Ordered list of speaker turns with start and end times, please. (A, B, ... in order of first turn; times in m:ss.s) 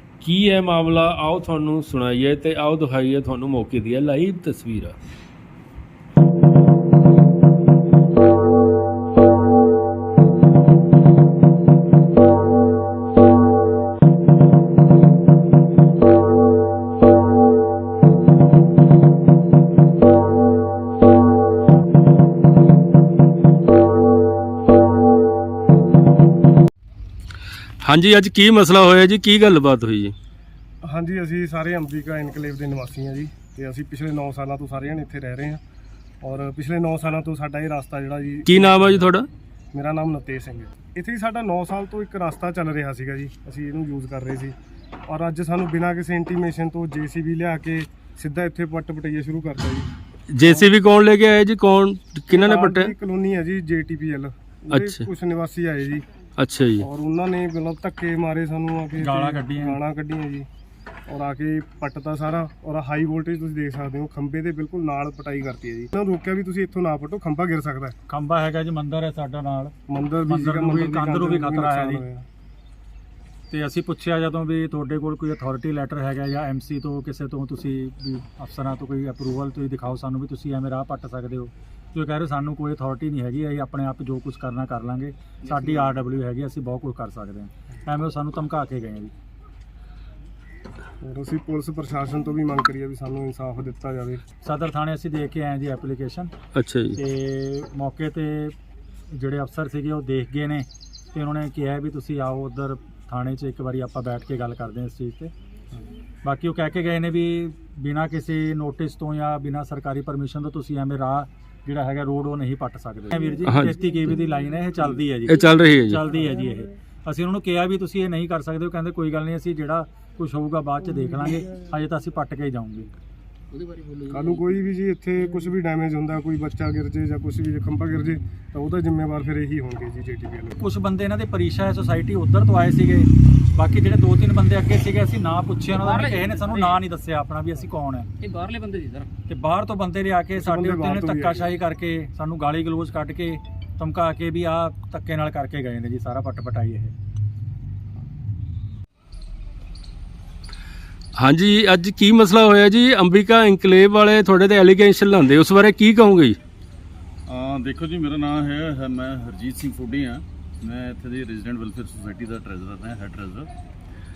0:00.2-0:05.0 A
0:27.8-0:30.1 A
0:30.8-0:35.6 B
0:36.2-0:39.0 B
0:38.4-0:39.3 A
0:39.7-0:44.5 B
0:45.1-0:49.9 B
0:50.3-0:52.9 A
0:50.4-0:50.8 B
0:52.3-0:56.0 B
0:54.7-0:55.0 A
0:56.4-0:56.8 A
0:56.8-1:00.4 B
0:59.0-0:59.8 C
1:01.1-1:07.9 B
1:08.1-1:09.7 C
1:09.9-1:12.2 B
1:10.2-1:12.0 C
1:13.5-1:29.1 C
1:31.0-1:34.2 B
1:34.4-1:36.3 C
1:36.5-1:37.0 A
1:36.9-1:38.5 C
1:39.1-1:45.3 C
1:46.2-2:02.9 C
1:53.5-1:53.8 A
1:55.3-1:56.0 A
2:03.5-2:04.4 D
2:04.1-2:10.6 B
2:10.6-2:18.1 C
2:15.7-2:16.8 D
2:18.2-2:19.1 D
2:19.3-2:26.9 C
2:20.4-2:21.5 B
2:31.2-2:36.4 A
2:37.3-2:43.5 E